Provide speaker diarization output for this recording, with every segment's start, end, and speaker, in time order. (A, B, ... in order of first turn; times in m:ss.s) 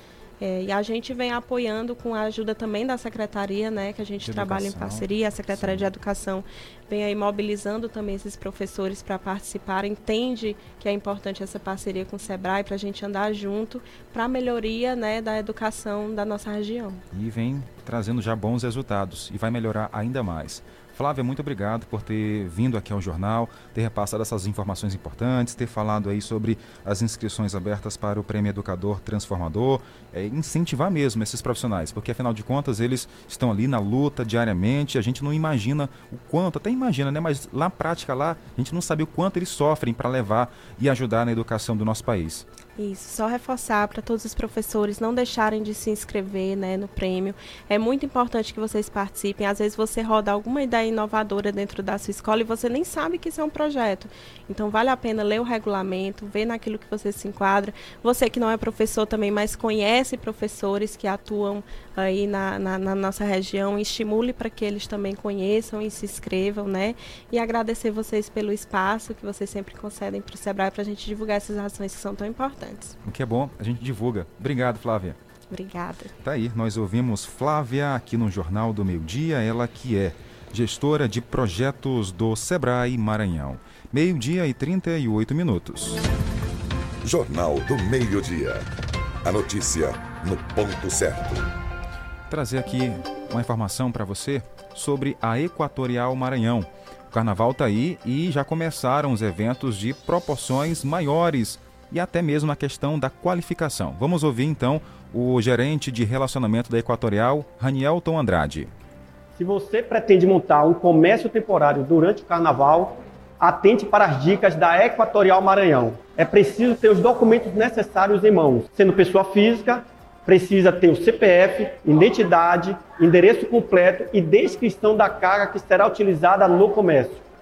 0:00.4-0:17.0 A
0:04.2-0:05.9 B
0:17.1-0:42.4 B
0:42.8-1:13.0 A
1:13.0-1:15.2 B
1:15.5-1:16.1 A
1:16.2-1:26.0 B
1:27.0-1:28.7 C
1:29.2-1:31.5 C
1:32.3-1:48.7 B
1:49.4-2:07.2 D